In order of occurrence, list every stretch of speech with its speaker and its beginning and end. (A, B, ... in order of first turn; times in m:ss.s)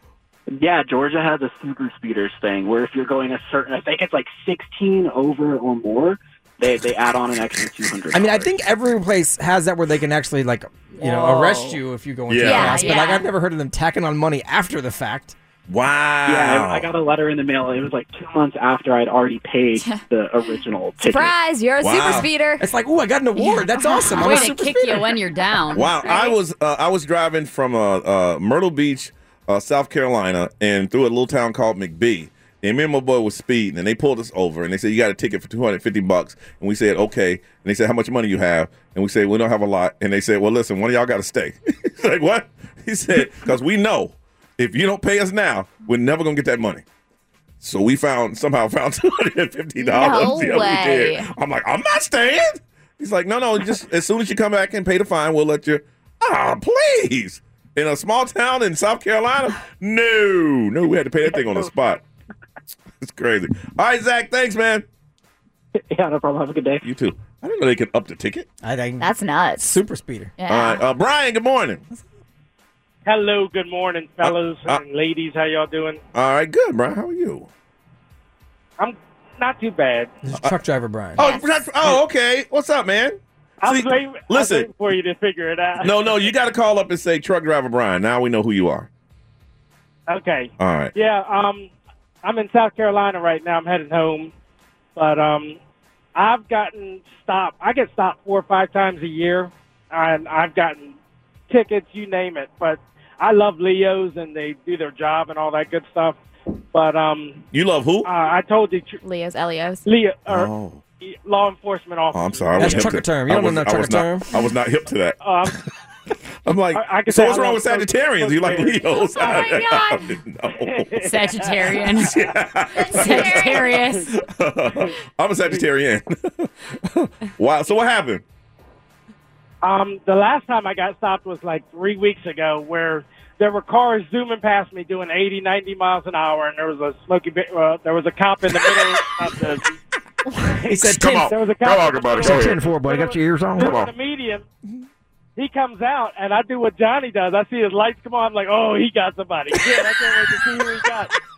0:00.5-0:08.5 A
0:08.1-0:15.4 B
0:11.0-0:11.8 C
0:12.3-0:12.9 D
0:12.4-0:13.3 C
0:15.7-0:16.9 D
0:16.3-0:21.3 A
0:19.8-0:22.6 C
0:21.8-0:22.3 D
0:22.6-0:25.1 B
0:23.4-0:24.5 C
0:24.2-0:26.1 E
0:25.7-0:46.8 D
0:26.0-0:26.3 C
0:47.6-1:02.0 D
0:49.8-0:51.3 C
1:03.0-1:04.8 D
1:05.7-1:06.8 A
1:06.8-1:08.5 D
1:08.6-1:10.4 B
1:09.0-1:09.7 C
1:10.4-1:10.8 C
1:10.5-1:11.8 D
1:13.1-1:16.0 F
1:14.2-1:14.8 D
1:16.1-1:17.5 D
1:18.8-1:20.1 F
1:20.2-1:21.2 B
1:21.2-1:24.7 D
1:21.2-1:21.4 C
1:23.6-1:26.2 F
1:25.8-1:28.9 D
1:30.1-1:31.7 F
1:30.6-1:30.9 D
1:32.2-1:34.3 F
1:35.0-1:35.6 F
1:36.2-1:41.0 F
1:41.5-1:46.2 F
1:46.7-1:47.4 F
1:47.5-1:48.1 D
1:48.0-1:49.0 F
1:49.0-1:49.8 C
1:49.9-1:50.5 F
1:50.3-1:50.8 D
1:51.0-1:52.9 F
1:52.1-1:55.2 D
1:52.6-1:54.3 B
1:55.2-1:55.6 F
1:56.4-2:00.9 D
1:56.7-1:59.7 F
1:59.1-2:00.1 C
2:00.5-2:02.3 F
2:01.0-2:02.2 E
2:01.7-2:08.2 D
2:02.7-2:03.7 C
2:02.8-2:04.1 E
2:02.9-2:04.1 F
2:09.6-2:19.7 F
2:20.6-2:21.3 B
2:20.8-2:22.7 D
2:21.2-2:24.4 F
2:22.2-2:23.8 B
2:23.6-2:23.9 D
2:25.4-2:31.1 F